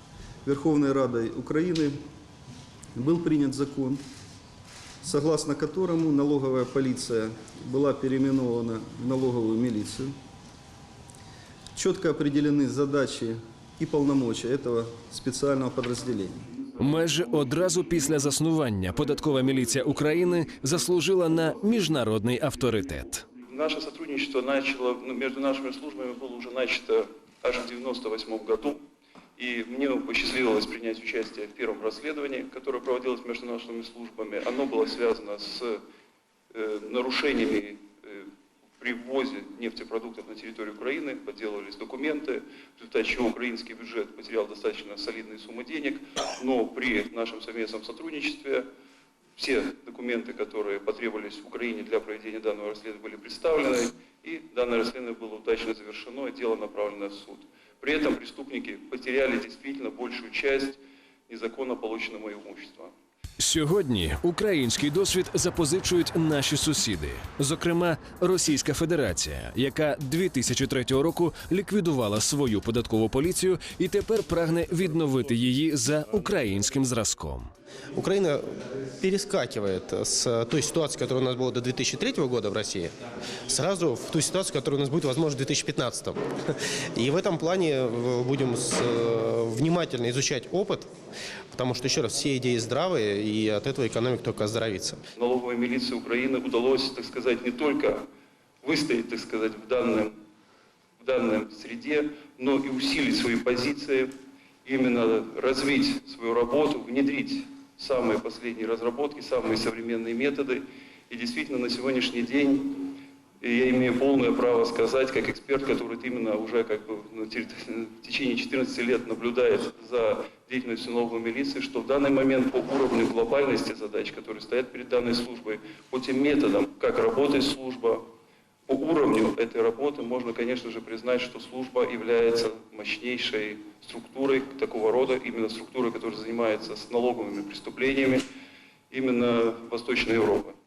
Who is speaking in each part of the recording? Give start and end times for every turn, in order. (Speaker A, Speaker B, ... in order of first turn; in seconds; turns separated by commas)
Speaker A: 0.5-1.9, Speaker A: 3.0-4.0, Speaker A: 5.0-10.1, Speaker A: 11.8-16.4, Speaker B: 16.8-23.3, Speaker C: 23.5-28.8, Speaker C: 29.4-35.8, Speaker C: 36.5-38.2, Speaker C: 38.8-48.7, Speaker C: 49.4-62.9, Speaker B: 63.4-77.5, Speaker D: 78.0-78.3, Speaker D: 79.0-82.9, Speaker D: 83.6-86.1, Speaker D: 87.0-88.6, Speaker D: 89.3-90.8, Speaker D: 91.6-95.0, Speaker C: 95.2-98.0, Speaker C: 98.6-100.1, Speaker C: 101.0-104.1, Speaker C: 104.7-112.8, Speaker C: 113.4-128.0, Speaker C: 128.7-138.2, Speaker C: 138.9-140.5